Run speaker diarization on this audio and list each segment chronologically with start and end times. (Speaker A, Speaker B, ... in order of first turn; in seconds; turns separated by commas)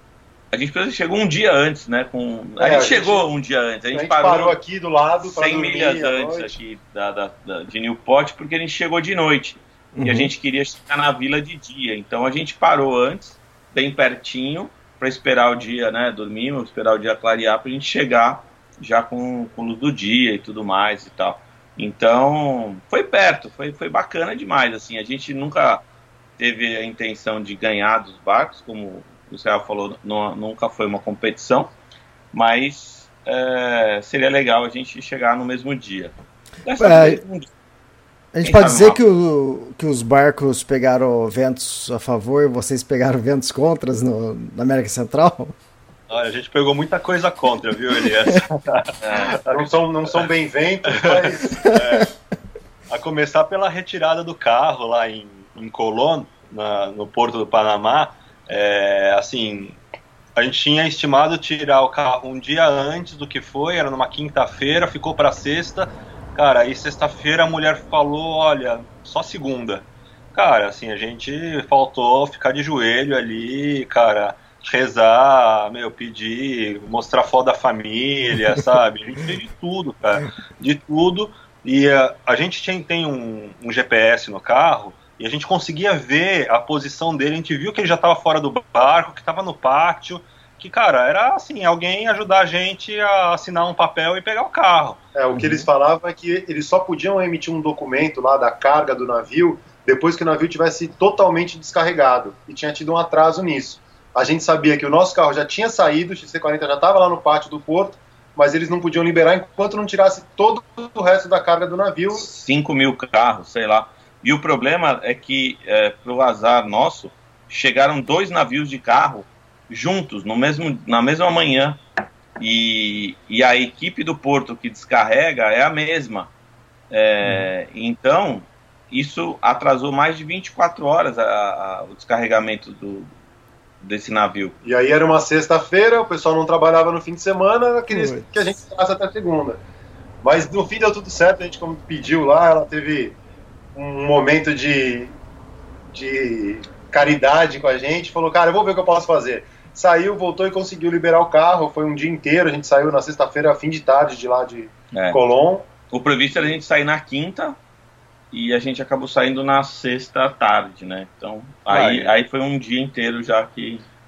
Speaker A: 0.5-4.6, Speaker B: 2.6-3.3, Speaker B: 3.9-6.5, Speaker A: 5.2-25.8, Speaker C: 10.0-10.3, Speaker A: 26.4-31.7, Speaker A: 32.3-36.1, Speaker A: 36.6-37.5, Speaker C: 36.8-37.2, Speaker C: 38.3-45.5, Speaker A: 38.4-39.0, Speaker D: 46.1-50.3, Speaker A: 49.0-49.4, Speaker B: 49.5-51.6, Speaker D: 50.9-52.1, Speaker D: 52.9-59.8, Speaker D: 60.4-95.0, Speaker B: 95.2-112.3, Speaker C: 95.3-95.7, Speaker A: 112.1-121.8, Speaker A: 122.4-126.3, Speaker A: 126.9-133.1, Speaker A: 133.8-134.6, Speaker B: 134.6-139.6, Speaker C: 137.9-138.6, Speaker B: 140.2-143.2, Speaker B: 143.8-145.1, Speaker B: 145.9-155.7, Speaker A: 154.9-155.2, Speaker A: 155.9-157.6, Speaker A: 158.3-163.8, Speaker D: 161.7-162.1